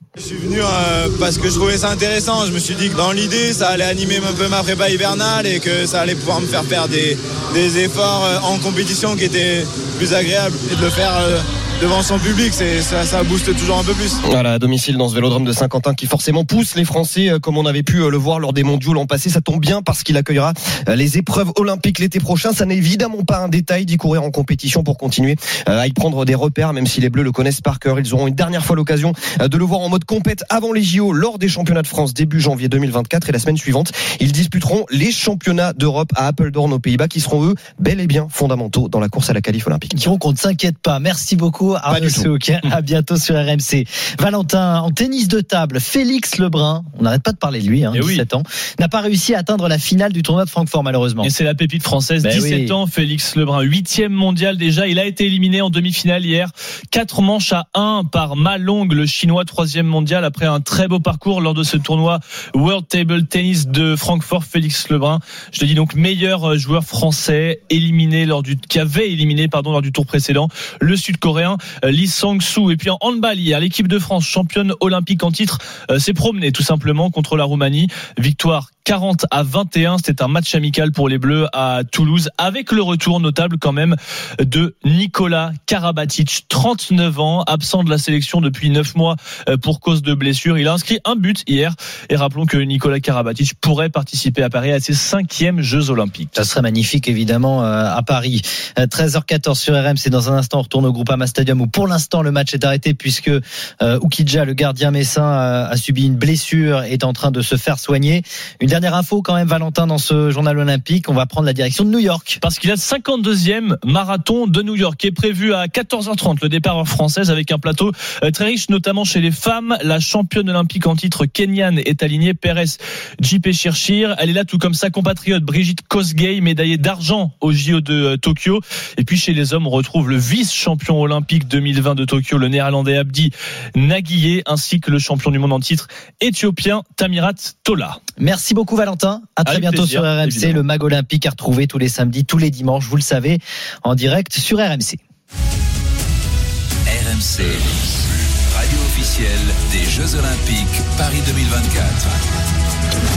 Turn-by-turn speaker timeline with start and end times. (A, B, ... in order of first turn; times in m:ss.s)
0:00.2-0:14.2 A
0:14.2-0:39.9 B
0:39.9-0:51.3 C
0:41.9-0:42.3 B
0:47.9-0:48.2 D
0:51.2-1:36.4 D
0:52.2-0:52.8 C
1:36.3-1:52.4 C
1:52.4-2:18.0 D
2:18.2-2:25.0 C
2:19.4-2:20.6 D
2:26.9-2:32.1 E